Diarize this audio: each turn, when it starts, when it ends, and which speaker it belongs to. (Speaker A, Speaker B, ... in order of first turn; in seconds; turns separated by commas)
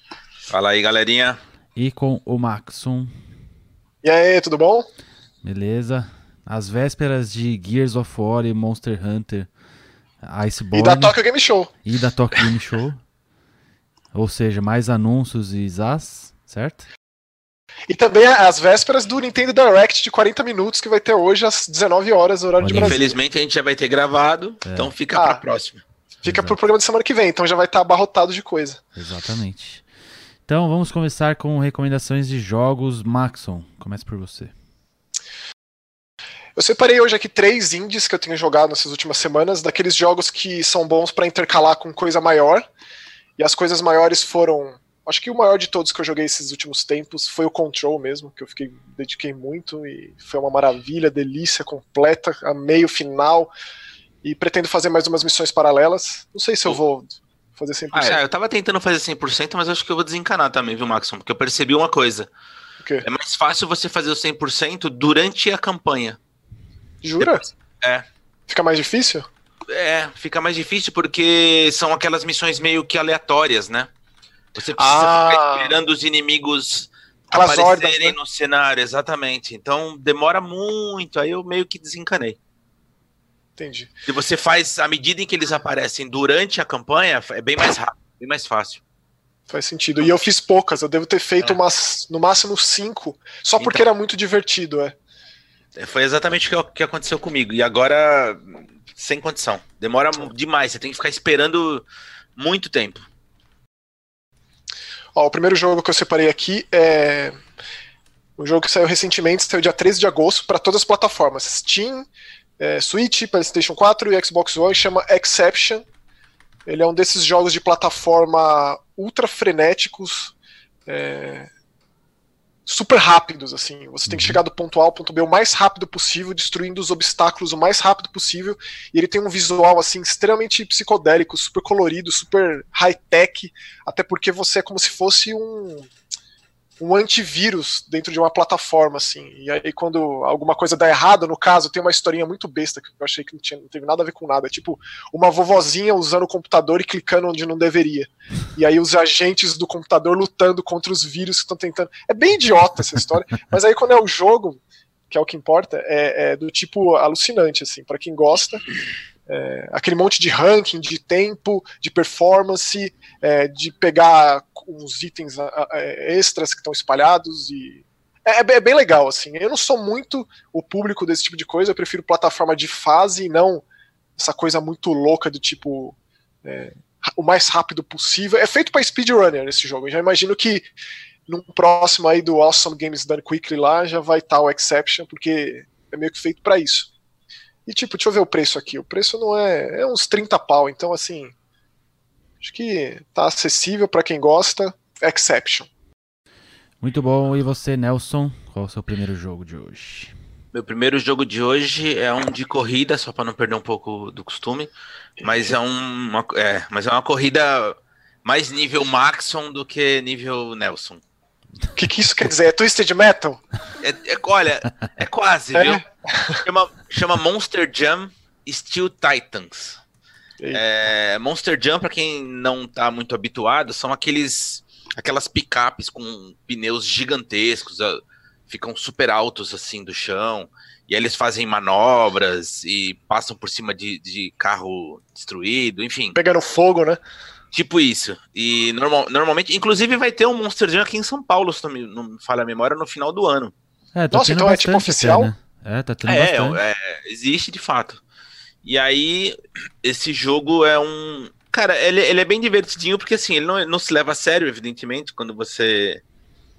Speaker A: 0.5-1.4, Speaker B: 1.8-3.1, Speaker C: 4.0-4.9, Speaker B: 5.4-9.5, Speaker B: 10.2-11.2, Speaker C: 10.7-11.7, Speaker B: 11.8-13.0, Speaker B: 14.1-16.9, Speaker C: 17.9-23.2, Speaker B: 22.6-23.0, Speaker A: 22.7-25.8, Speaker B: 24.6-24.9, Speaker C: 25.1-25.4, Speaker B: 26.2-26.6, Speaker C: 26.2-28.8, Speaker B: 29.0-29.9, Speaker B: 30.5-34.5, Speaker C: 36.6-42.6, Speaker C: 43.4-53.5, Speaker C: 54.2-58.2, Speaker A: 57.9-62.3, Speaker A: 63.0-66.2, Speaker C: 67.0-67.4, Speaker A: 67.2-68.0, Speaker C: 68.5-69.3, Speaker A: 69.7-73.9, Speaker A: 74.5-82.4, Speaker C: 74.8-75.8, Speaker C: 77.3-78.2, Speaker C: 83.6-83.9, Speaker A: 84.1-88.8, Speaker C: 89.5-95.0, Speaker A: 93.6-93.9, Speaker A: 95.8-101.8, Speaker A: 102.4-103.0, Speaker C: 105.2-107.4, Speaker C: 108.4-112.1, Speaker C: 112.6-115.8, Speaker C: 116.7-120.3, Speaker C: 120.9-121.5, Speaker C: 122.7-135.9, Speaker B: 124.1-124.4, Speaker C: 136.8-158.6, Speaker C: 159.3-173.6, Speaker C: 174.2-180.7, Speaker C: 181.3-186.9, Speaker C: 187.7-191.3, Speaker C: 192.4-195.7, Speaker B: 196.8-200.1, Speaker A: 200.5-211.0, Speaker C: 205.2-205.5, Speaker C: 211.8-213.4, Speaker A: 213.8-215.8, Speaker C: 215.5-216.4, Speaker A: 216.4-219.8, Speaker A: 220.5-236.2, Speaker C: 236.2-237.0, Speaker A: 237.5-243.5, Speaker B: 243.9-246.6, Speaker C: 244.1-245.3, Speaker A: 246.1-248.0, Speaker A: 248.7-256.0